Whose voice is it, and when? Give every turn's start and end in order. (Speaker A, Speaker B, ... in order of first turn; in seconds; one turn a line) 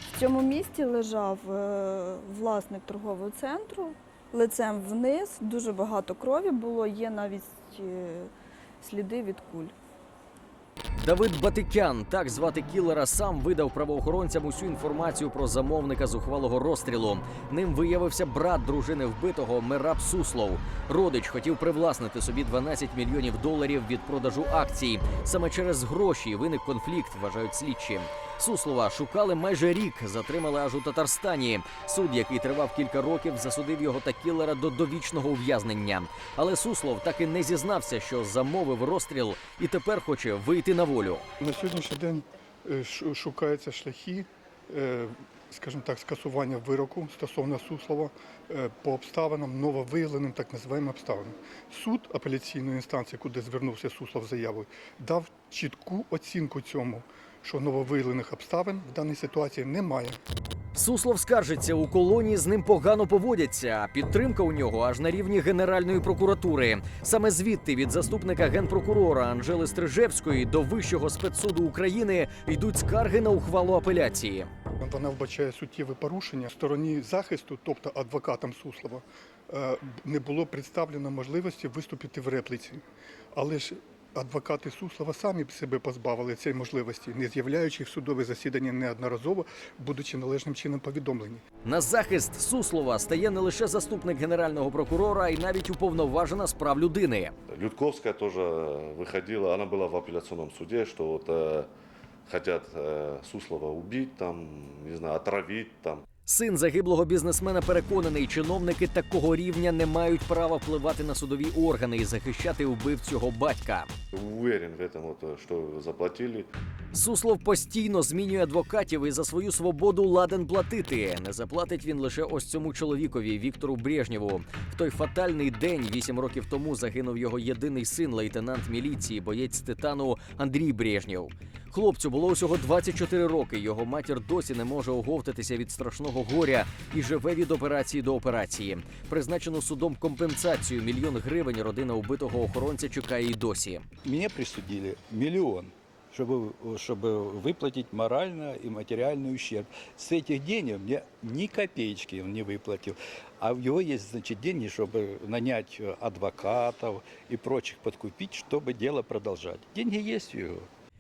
Speaker A: 0.1-9.7
Speaker B: 11.0-41.2
Speaker C: 41.4-60.2
Speaker B: 60.8-74.5
Speaker C: 74.8-82.8
Speaker C: 83.3-91.4
Speaker B: 91.7-97.3
Speaker D: 97.5-101.7
Speaker D: 102.3-106.0
Speaker B: 106.3-113.9
Speaker D: 114.1-116.5
Speaker B: 116.9-143.8
Speaker E: 144.1-160.7